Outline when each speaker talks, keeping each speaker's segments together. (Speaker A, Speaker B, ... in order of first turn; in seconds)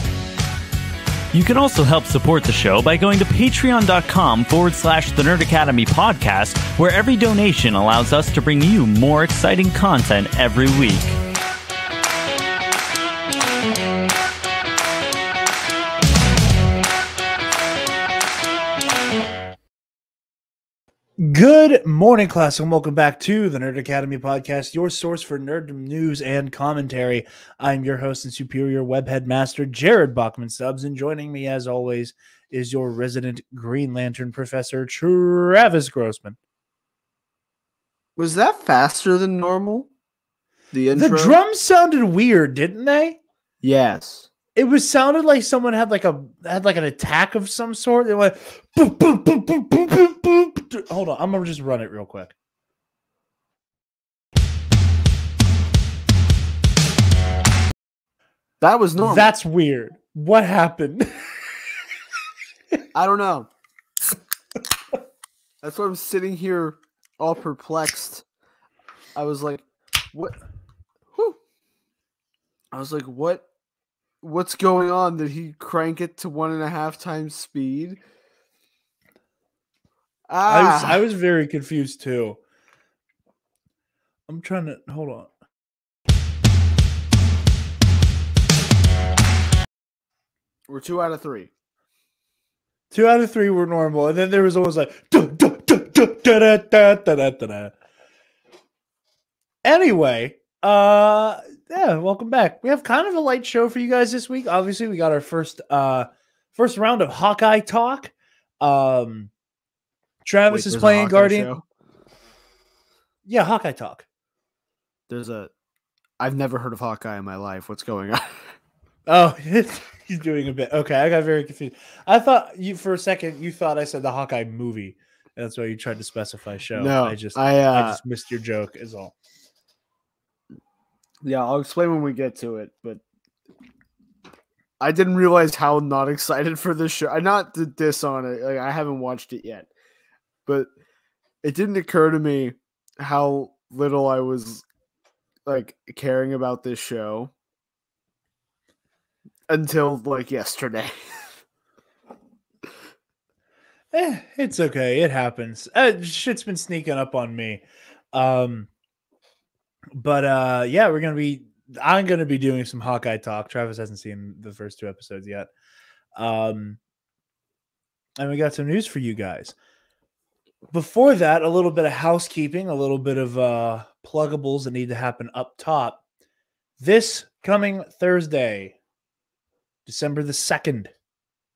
Speaker A: 1.3-11.2
Speaker B: 21.2-36.4, 40.9-43.2, 44.5-52.3, 59.0-61.2, 80.5-82.4, 84.3-85.3, 92.9-97.7, 99.6-109.3, 110.2-111.5, 113.3-114.0, 119.1-129.1, 153.9-158.7, 159.9-165.5, 166.2-166.8, 168.2-169.6, 170.7-176.0, 176.8-178.8, 179.9-180.9
Speaker C: 38.2-39.9, 40.7-41.4, 43.6-44.3, 58.6-59.3, 62.9-63.5, 65.6-68.2, 69.1-70.4, 71.1-71.4, 72.7-73.5, 74.2-78.0, 80.3-81.0, 90.7-91.5, 110.5-111.6, 115.1-115.5, 116.2-118.6, 126.7-128.0, 131.2-133.0, 134.8-139.7, 140.4-140.7, 141.4-144.6, 145.4-147.3, 149.5-151.3